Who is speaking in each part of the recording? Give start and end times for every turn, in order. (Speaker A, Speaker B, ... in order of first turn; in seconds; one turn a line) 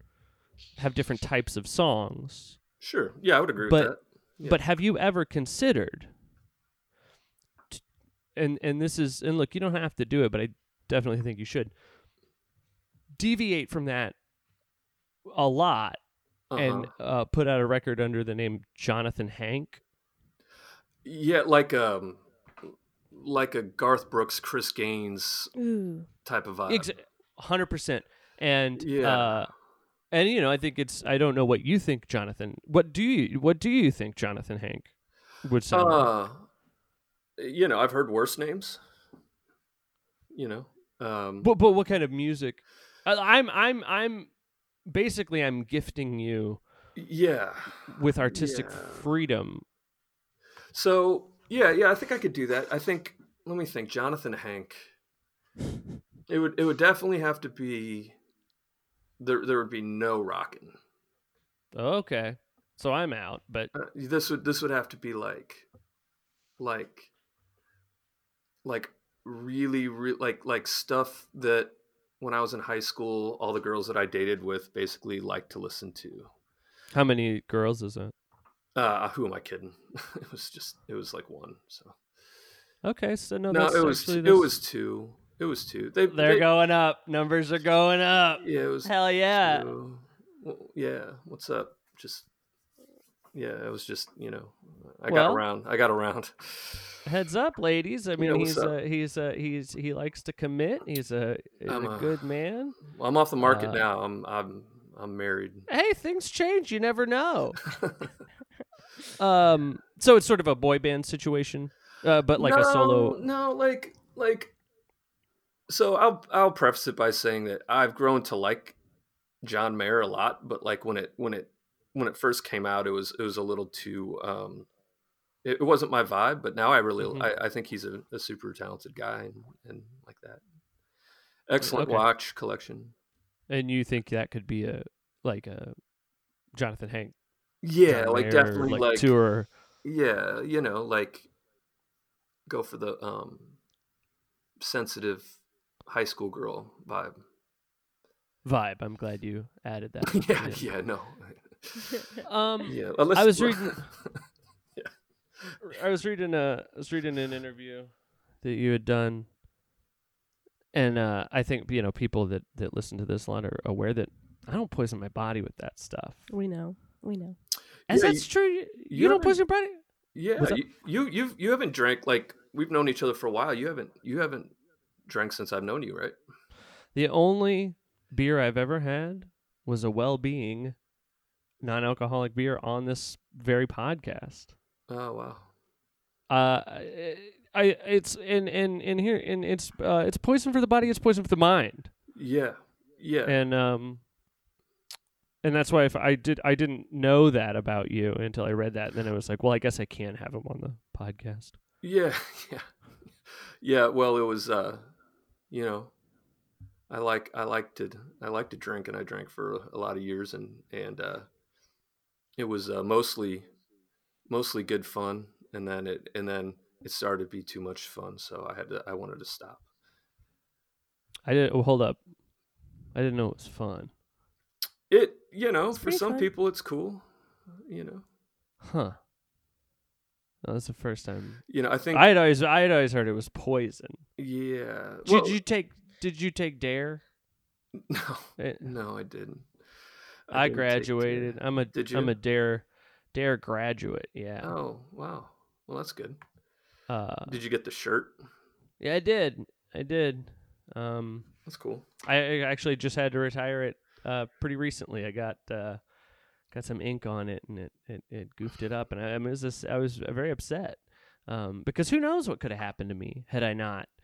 Speaker A: 0.8-2.6
Speaker B: 2.8-4.6
Speaker A: 3.6-6.1
Speaker A: 8.3-11.7
Speaker A: 13.2-14.2
Speaker A: 15.3-16.0
Speaker B: 16.5-16.9
Speaker A: 16.6-19.8
Speaker B: 21.0-22.2
Speaker B: 23.1-25.5
Speaker C: 25.6-26.1
Speaker B: 26.2-26.9
Speaker A: 26.7-29.5
Speaker B: 28.8-29.4
Speaker A: 30.1-34.9
Speaker A: 35.4-36.1
Speaker B: 35.7-36.5
Speaker B: 37.4-38.8
Speaker B: 40.3-41.5
Speaker A: 41.4-44.3
Speaker A: 44.9-46.6
Speaker B: 47.0-49.1
Speaker A: 47.9-49.6
Speaker B: 50.7-54.9
Speaker B: 56.3-58.2
Speaker B: 59.2-60.8
Speaker A: 61.7-63.7
Speaker B: 63.7-65.7
Speaker B: 66.6-67.1
Speaker B: 68.6-76.3
Speaker A: 76.9-78.1
Speaker B: 78.7-82.0
Speaker A: 82.8-84.5
Speaker B: 83.5-86.5
Speaker A: 86.1-89.7
Speaker B: 88.4-92.3
Speaker B: 93.3-97.0
Speaker A: 95.1-95.4
Speaker A: 97.0-102.8
Speaker B: 98.2-98.7
Speaker B: 101.7-102.2
Speaker B: 102.8-105.7
Speaker A: 103.4-103.8
Speaker A: 105.7-107.6
Speaker B: 107.7-108.1
Speaker A: 109.2-113.2
Speaker B: 112.3-114.5
Speaker B: 115.7-118.8
Speaker B: 119.4-124.7
Speaker B: 125.4-130.4
Speaker A: 127.0-127.3
Speaker B: 131.5-132.9
Speaker A: 131.6-132.1
Speaker A: 133.5-135.8
Speaker A: 136.5-137.1
Speaker B: 137.6-139.1
Speaker A: 137.8-139.5
Speaker B: 139.8-141.3
Speaker B: 142.5-143.6
Speaker B: 144.6-147.2
Speaker A: 148.4-150.7
Speaker B: 150.1-152.0
Speaker A: 152.2-153.9
Speaker B: 152.6-154.2
Speaker A: 155.6-159.3
Speaker A: 160.7-166.3
Speaker C: 166.3-167.4
Speaker B: 167.9-168.3
Speaker A: 167.9-169.8
Speaker B: 168.8-169.4
Speaker B: 170.1-174.5
Speaker B: 175.1-176.2
Speaker A: 176.9-180.8
Speaker A: 181.6-184.5
Speaker B: 184.9-185.5
Speaker A: 186.3-191.9
Speaker B: 192.1-193.4
Speaker A: 193.2-194.0
Speaker A: 195.4-201.6
Speaker B: 201.8-202.7
Speaker B: 203.3-204.8
Speaker B: 205.5-205.9
Speaker B: 206.9-211.3
Speaker B: 212.4-213.5
Speaker B: 214.3-219.6
Speaker A: 221.2-222.0
Speaker A: 222.9-223.9
Speaker B: 224.9-227.1
Speaker C: 225.7-226.3
Speaker B: 227.6-228.0
Speaker A: 228.6-228.9
Speaker A: 230.4-234.0
Speaker B: 231.5-232.1
Speaker B: 234.2-235.4
Speaker A: 235.0-237.0
Speaker B: 237.7-239.5
Speaker A: 238.4-238.7
Speaker B: 240.3-242.2
Speaker A: 240.3-244.5
Speaker B: 244.4-246.2
Speaker A: 246.9-247.4
Speaker B: 247.3-248.2
Speaker A: 248.8-251.3
Speaker B: 251.4-251.8
Speaker A: 252.0-255.8
Speaker A: 256.5-263.9